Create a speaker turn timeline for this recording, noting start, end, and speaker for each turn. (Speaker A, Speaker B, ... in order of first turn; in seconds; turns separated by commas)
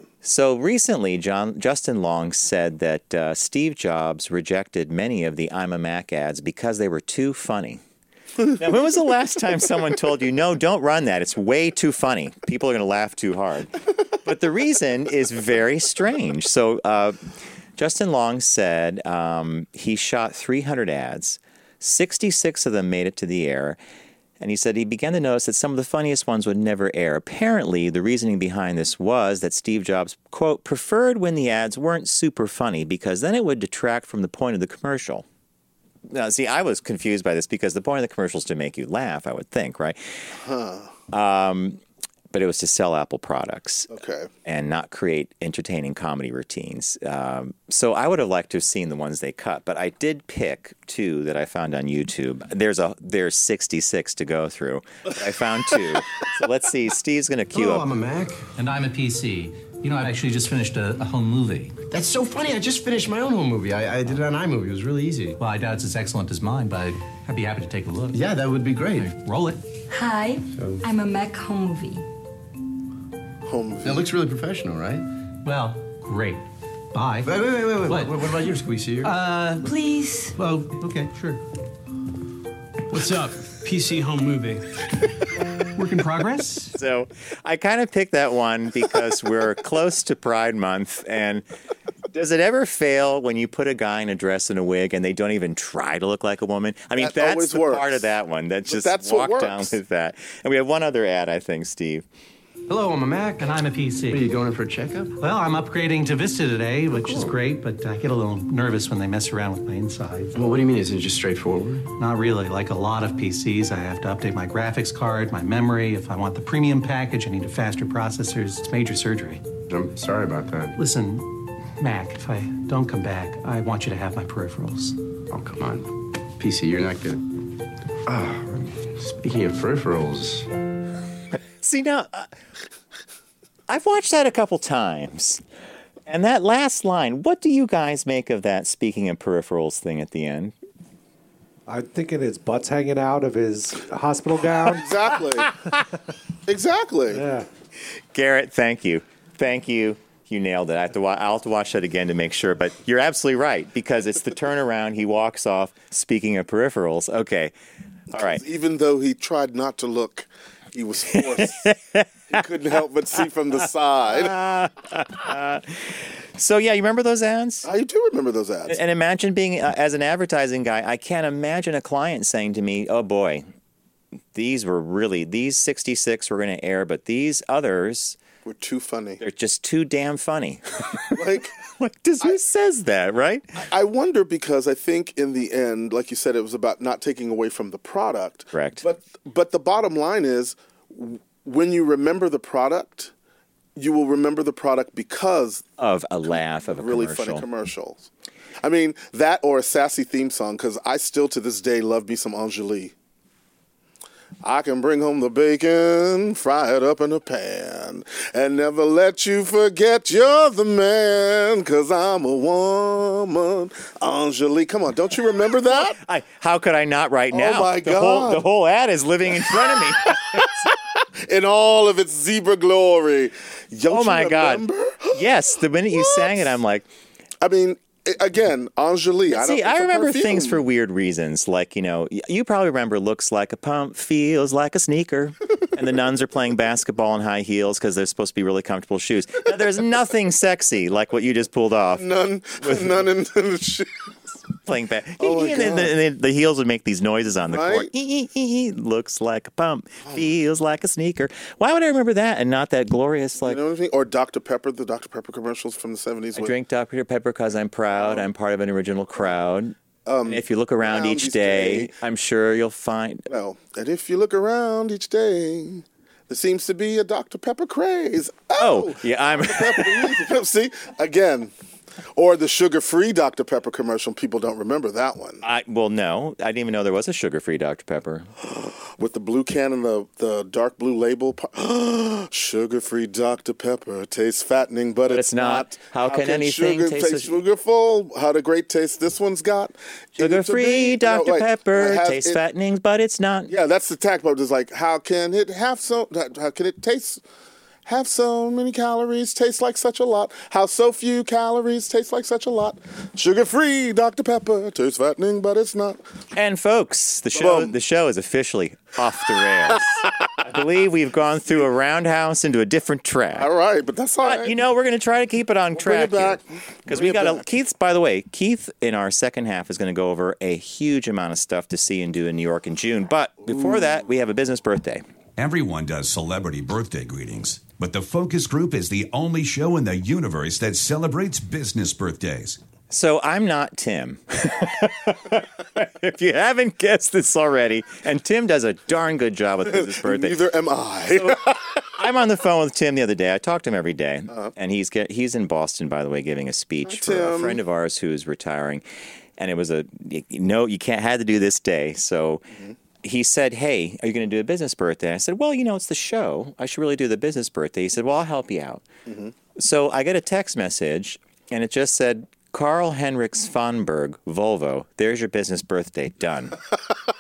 Speaker A: 0.2-7.8, Speaker A: 8.6-17.2, Speaker A: 17.8-23.8, Speaker A: 24.4-35.2, Speaker A: 36.1-40.0, Speaker B: 40.3-40.9, Speaker A: 41.1-41.8, Speaker A: 42.3-43.9, Speaker B: 43.9-44.3, Speaker A: 44.5-57.9, Speaker C: 57.5-58.5, Speaker D: 58.6-61.8, Speaker C: 61.9-65.4, Speaker D: 65.4-68.2, Speaker C: 68.1-69.1, Speaker D: 69.0-69.6, Speaker E: 69.9-72.0, Speaker C: 70.5-70.8, Speaker B: 73.5-74.1, Speaker C: 73.8-75.0, Speaker D: 75.4-78.3, Speaker C: 77.2-79.2, Speaker D: 79.0-79.7, Speaker E: 79.6-80.4, Speaker D: 80.4-81.4, Speaker D: 82.9-84.7, Speaker D: 85.8-86.7, Speaker A: 86.8-91.5, Speaker A: 92.1-102.0, Speaker B: 97.0-98.1, Speaker B: 98.7-99.8, Speaker C: 102.7-105.2, Speaker D: 103.4-104.2, Speaker D: 105.2-110.3, Speaker C: 106.9-107.3, Speaker C: 110.3-111.9, Speaker D: 112.0-119.4, Speaker C: 119.7-120.8, Speaker D: 120.8-125.0, Speaker C: 125.3-127.2, Speaker C: 128.1-130.5, Speaker A: 131.6-132.3, Speaker A: 133.7-135.4, Speaker A: 136.1-140.5, Speaker F: 141.7-144.9, Speaker B: 144.7-145.5, Speaker B: 146.5-147.2, Speaker F: 147.1-147.5, Speaker A: 148.1-157.5, Speaker A: 158.1-158.4, Speaker B: 158.1-161.7, Speaker A: 161.1-162.1, Speaker B: 162.3-164.4, Speaker A: 164.1-167.7, Speaker B: 167.6-168.8, Speaker A: 168.7-173.4, Speaker A: 174.3-178.2, Speaker B: 178.4-179.2, Speaker A: 179.2-181.2, Speaker B: 181.1-181.5, Speaker A: 181.7-183.5, Speaker B: 183.6-193.1, Speaker A: 188.5-188.8, Speaker B: 193.8-195.7, Speaker A: 195.8-197.5, Speaker B: 196.7-198.1, Speaker B: 198.6-202.9, Speaker B: 204.4-216.0, Speaker A: 215.8-220.5, Speaker B: 217.3-218.5, Speaker B: 219.4-220.5, Speaker B: 221.2-225.3, Speaker A: 223.9-226.9, Speaker B: 225.9-226.6, Speaker B: 227.4-230.6, Speaker A: 229.3-242.1, Speaker B: 241.9-244.1, Speaker A: 242.6-243.0, Speaker A: 244.7-253.6, Speaker B: 245.2-245.9, Speaker B: 247.5-247.9, Speaker B: 253.4-256.6, Speaker A: 256.4-263.3, Speaker B: 258.0-258.3, Speaker B: 260.1-261.9, Speaker B: 263.3-271.5, Speaker A: 268.6-270.1, Speaker B: 272.2-275.4, Speaker A: 275.4-278.3, Speaker B: 278.4-292.4, Speaker A: 285.1-287.4, Speaker A: 290.2-293.5, Speaker B: 293.5-297.2, Speaker B: 297.9-306.0, Speaker A: 306.3-313.5, Speaker B: 307.3-307.8, Speaker B: 313.3-314.6, Speaker A: 314.2-325.0, Speaker B: 315.8-317.5, Speaker B: 323.5-324.0, Speaker G: 325.4-332.6, Speaker A: 332.9-340.4, Speaker B: 339.6-341.6, Speaker A: 341.2-348.8, Speaker B: 346.9-347.6, Speaker A: 349.4-352.5, Speaker A: 353.0-358.9, Speaker B: 359.1-359.3, Speaker A: 359.6-366.6